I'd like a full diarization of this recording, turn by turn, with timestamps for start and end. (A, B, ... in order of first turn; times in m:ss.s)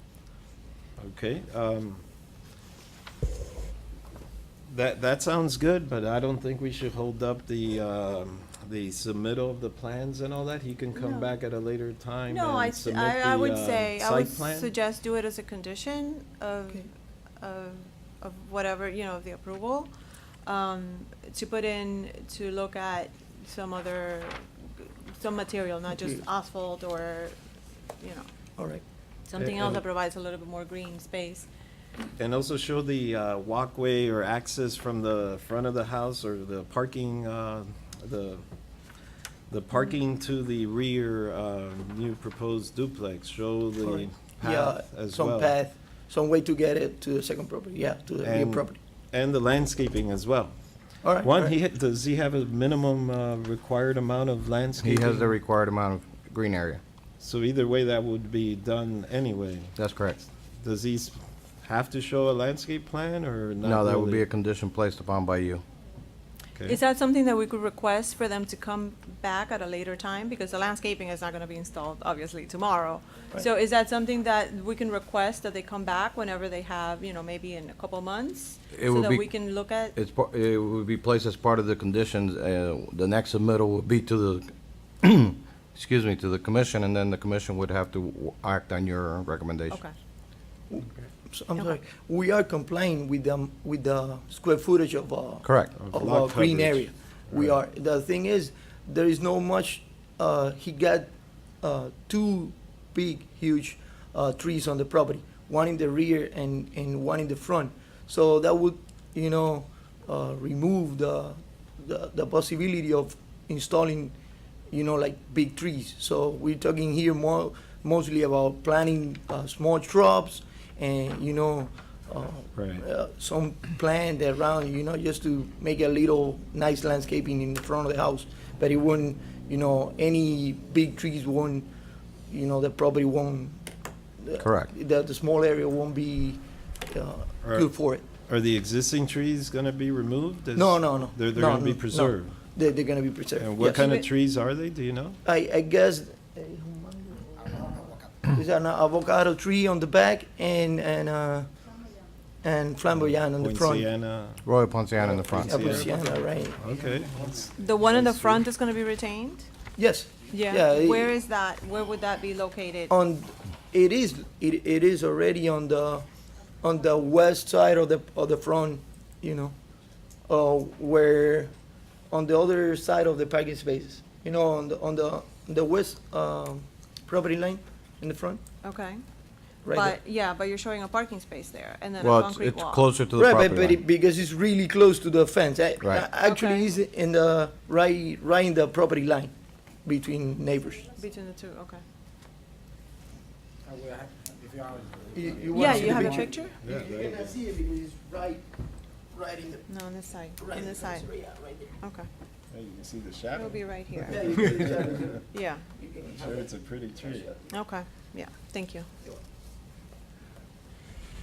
0:01.0-0:02.0 A
0:04.7-0:14.7 A
0:10.9-0:11.3 B
0:12.3-0:16.9 B
0:17.4-0:19.9 B
0:20.4-0:27.4 B
0:25.9-0:26.2 C
0:28.0-0:28.2 B
0:29.3-0:31.5 B
0:29.4-0:29.8 C
0:32.2-0:38.4 A
0:39.5-0:45.5 A
0:43.8-0:48.8 C
0:48.2-0:50.5 A
0:51.0-0:51.6 C
0:51.1-0:55.3 A
0:54.8-0:56.8 D
0:57.2-0:59.7 A
0:59.8-1:00.2 D
1:00.6-1:04.2 A
1:03.6-1:05.6 D
1:06.6-1:19.9 B
1:18.7-1:24.5 D
1:25.0-1:29.8 D
1:30.7-1:54.1 C
1:35.4-1:35.7 D
1:35.7-1:37.6 A
1:54.7-2:11.7 C
2:02.5-2:02.8 A
2:12.3-2:13.6 C
2:14.2-2:18.0 C
2:14.4-2:14.7 D
2:17.4-2:17.7 A
2:18.3-2:22.3 A
2:20.5-2:23.8 C
2:23.4-2:25.2 A
2:23.6-2:24.1 B
2:25.2-2:31.5 C
2:32.4-2:33.9 C
2:33.4-2:34.4 A
2:34.4-2:35.9 D
2:35.1-2:35.9 A
2:35.3-2:36.6 C
2:36.6-2:38.4 A
2:36.7-2:37.4 E
2:37.6-2:39.5 B
2:39.8-2:41.1 C
2:40.3-2:42.9 B
2:42.9-2:46.0 C
2:46.6-2:49.5 C
2:50.3-2:51.5 C
2:52.1-2:58.4 C
2:58.6-2:59.0 B
2:59.6-3:00.0 C
2:59.7-3:02.8 B
3:02.0-3:03.8 D
3:03.2-3:09.3 C
3:05.8-3:06.0 D
3:06.2-3:06.7 B
3:09.8-3:10.9 C
3:10.9-3:11.8 B
3:13.7-3:15.7 E
3:15.1-3:18.5 C
3:15.5-3:16.6 B
3:16.6-3:17.4 A
3:19.1-3:19.6 C
3:19.7-3:22.1 B
3:20.4-3:21.7 C
3:22.5-3:25.2 A
3:23.3-3:24.7 B
3:24.1-3:25.2 C
3:25.3-3:25.6 B
3:25.7-3:26.2 C
3:26.2-3:27.3 A
3:27.5-3:28.9 B